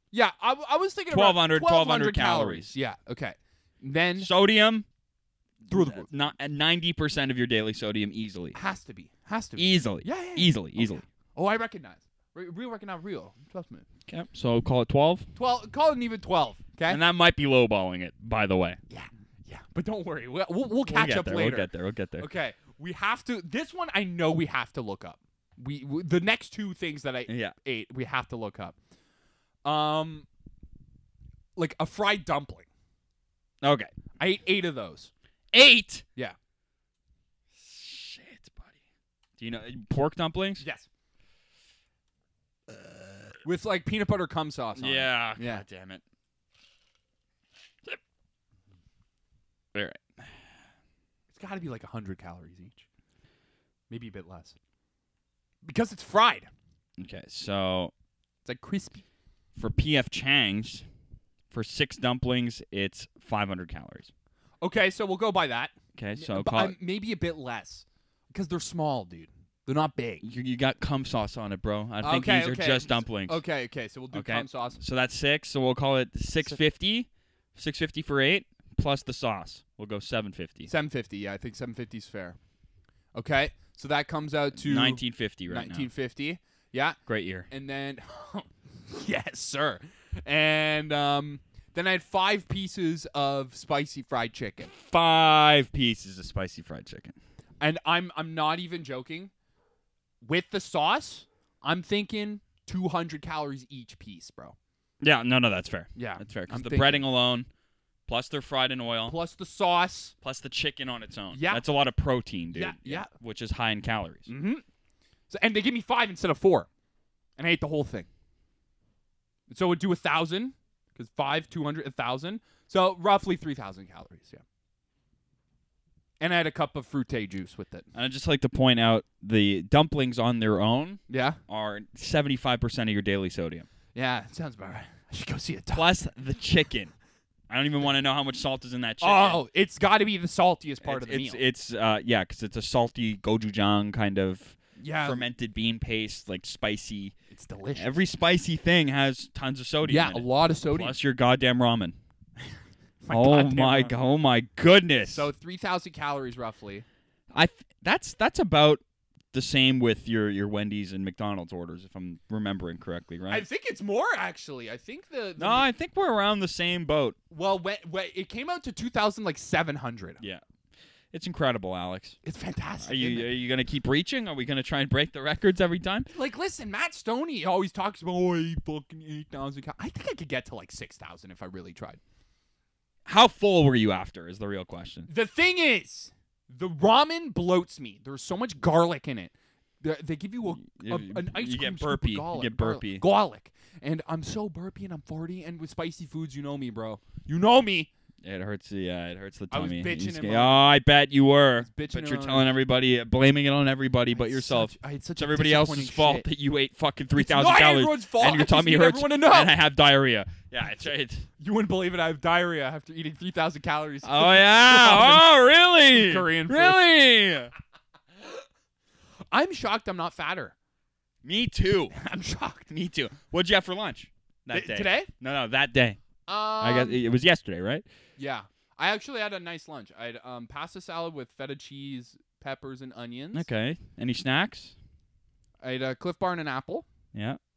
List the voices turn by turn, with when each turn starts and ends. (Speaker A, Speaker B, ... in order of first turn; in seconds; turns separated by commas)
Speaker A: 0.1-4.3, Speaker B: 1.1-2.7, Speaker B: 4.2-4.8, Speaker B: 5.6-8.6, Speaker A: 5.7-6.1, Speaker A: 8.5-13.8, Speaker B: 9.6-11.0, Speaker B: 14.1-15.3, Speaker A: 15.3-17.0, Speaker B: 16.9-18.8, Speaker A: 18.9-28.7, Speaker B: 20.9-22.3, Speaker B: 27.3-27.6, Speaker A: 29.6-30.3, Speaker A: 31.6-32.7, Speaker B: 33.6-33.9, Speaker A: 34.2-35.1, Speaker B: 35.5-36.0, Speaker B: 37.5-38.8, Speaker B: 39.4-40.6, Speaker A: 40.6-40.9, Speaker B: 42.7-43.4, Speaker A: 43.4-45.6, Speaker B: 44.8-46.0, Speaker B: 49.7-50.3, Speaker A: 51.3-52.8, Speaker A: 53.9-54.5, Speaker A: 55.6-56.5, Speaker B: 57.0-57.9, Speaker A: 58.4-59.0, Speaker B: 59.5-60.8, Speaker B: 61.5-64.1, Speaker A: 64.6-70.2, Speaker B: 65.9-66.8, Speaker B: 70.2-73.4, Speaker A: 72.0-74.8, Speaker B: 74.1-80.7, Speaker A: 80.7-82.4, Speaker A: 83.1-87.0, Speaker B: 84.5-85.9, Speaker B: 87.1-87.5, Speaker A: 87.5-94.7, Speaker B: 94.7-97.2, Speaker A: 97.6-99.3, Speaker A: 100.2-104.5, Speaker B: 105.0-107.5, Speaker A: 105.9-107.1, Speaker B: 108.1-109.1, Speaker A: 109.0-110.1, Speaker B: 110.2-114.3, Speaker A: 111.3-111.6, Speaker A: 112.5-113.1, Speaker A: 114.3-114.6, Speaker A: 115.3-116.7, Speaker A: 117.4-118.1, Speaker A: 119.5-124.4, Speaker A: 126.2-127.9, Speaker B: 127.9-133.7, Speaker A: 131.1-131.4, Speaker A: 133.9-135.9, Speaker B: 135.7-136.9, Speaker B: 137.5-139.4, Speaker A: 139.0-141.4, Speaker B: 140.8-147.1, Speaker A: 144.8-145.3, Speaker A: 147.3-148.0, Speaker B: 147.8-152.0, Speaker A: 149.8-151.0, Speaker A: 153.0-153.9, Speaker B: 153.1-155.3, Speaker A: 155.1-156.8, Speaker B: 157.3-158.8, Speaker B: 159.3-163.4, Speaker A: 163.3-165.7, Speaker B: 165.4-167.2, Speaker A: 167.3-170.2, Speaker B: 171.1-172.2, Speaker A: 172.2-173.3, Speaker B: 172.8-176.1, Speaker A: 176.1-182.0, Speaker B: 183.1-185.1, Speaker A: 185.1-197.9, Speaker B: 190.6-193.0, Speaker B: 198.2-211.3, Speaker A: 199.5-200.7, Speaker A: 201.6-202.5, Speaker A: 204.1-206.3, Speaker A: 207.1-209.6, Speaker A: 211.4-215.3, Speaker B: 214.0-217.5, Speaker A: 215.8-216.9, Speaker A: 219.3-220.5, Speaker B: 221.2-221.9, Speaker A: 221.9-222.7, Speaker B: 222.7-226.0, Speaker A: 224.5-225.1, Speaker A: 226.2-227.0, Speaker B: 226.6-227.8, Speaker A: 228.2-233.5, Speaker B: 233.3-234.7, Speaker A: 235.6-236.9, Speaker B: 237.1-237.4